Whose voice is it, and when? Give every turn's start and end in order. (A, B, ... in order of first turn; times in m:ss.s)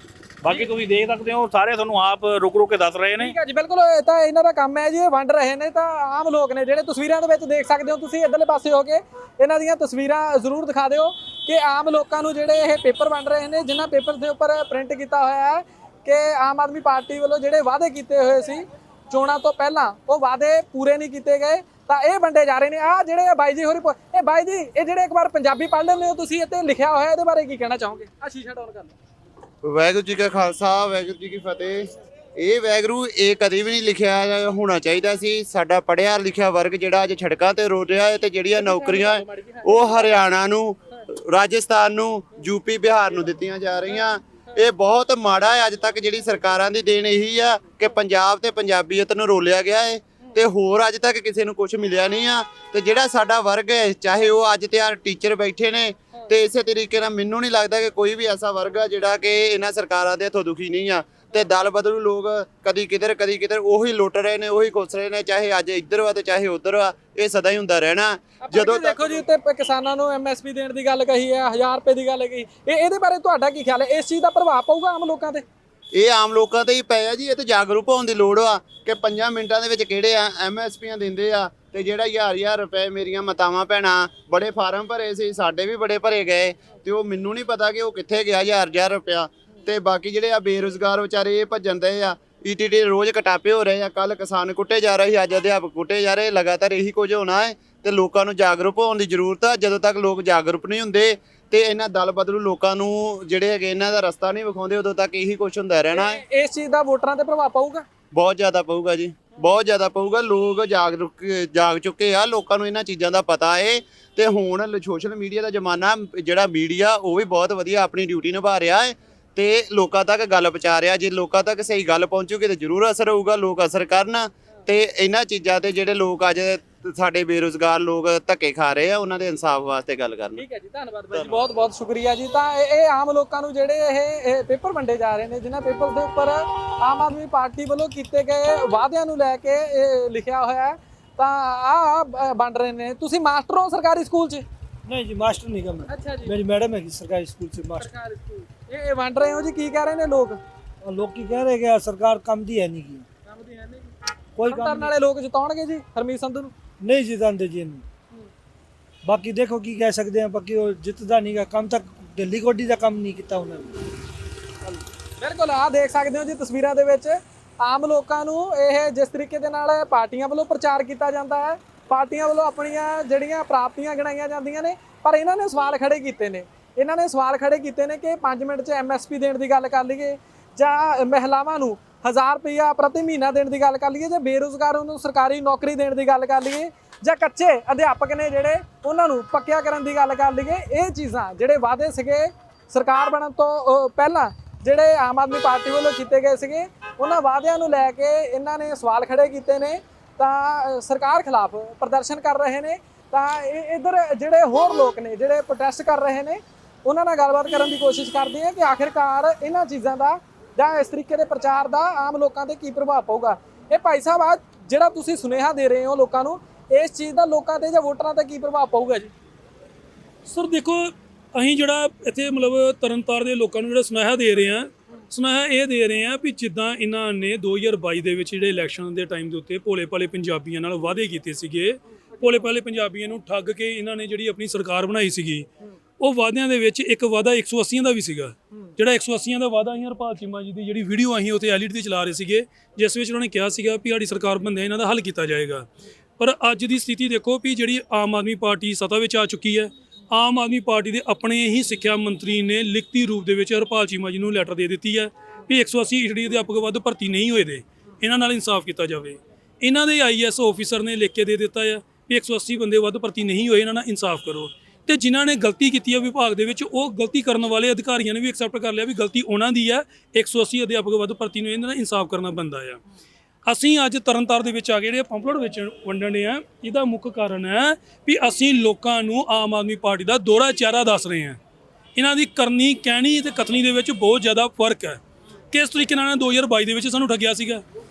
0:00.4-0:03.4 A
0:03.2-0:28.9 B
0:29.6-1:09.2 C
0:38.6-0:40.0 B
1:08.4-1:15.4 B
1:15.9-1:46.2 C
1:45.9-1:47.8 B
1:48.1-2:10.4 C
2:10.4-2:24.4 B
2:11.1-2:11.4 C
2:24.9-2:27.9 D
2:25.9-2:26.4 B
2:27.8-2:30.4 B
2:30.8-2:33.0 D
2:33.3-2:33.9 B
2:34.4-2:34.9 D
2:34.4-2:36.5 B
2:36.8-2:37.8 D
2:39.0-2:43.8 D
2:45.2-3:39.1 B
3:40.3-3:55.5 E
3:56.0-4:05.7 E
4:06.2-4:32.8 E
4:33.5-4:41.4 E
4:42.0-4:45.0 E
4:45.5-4:47.6 E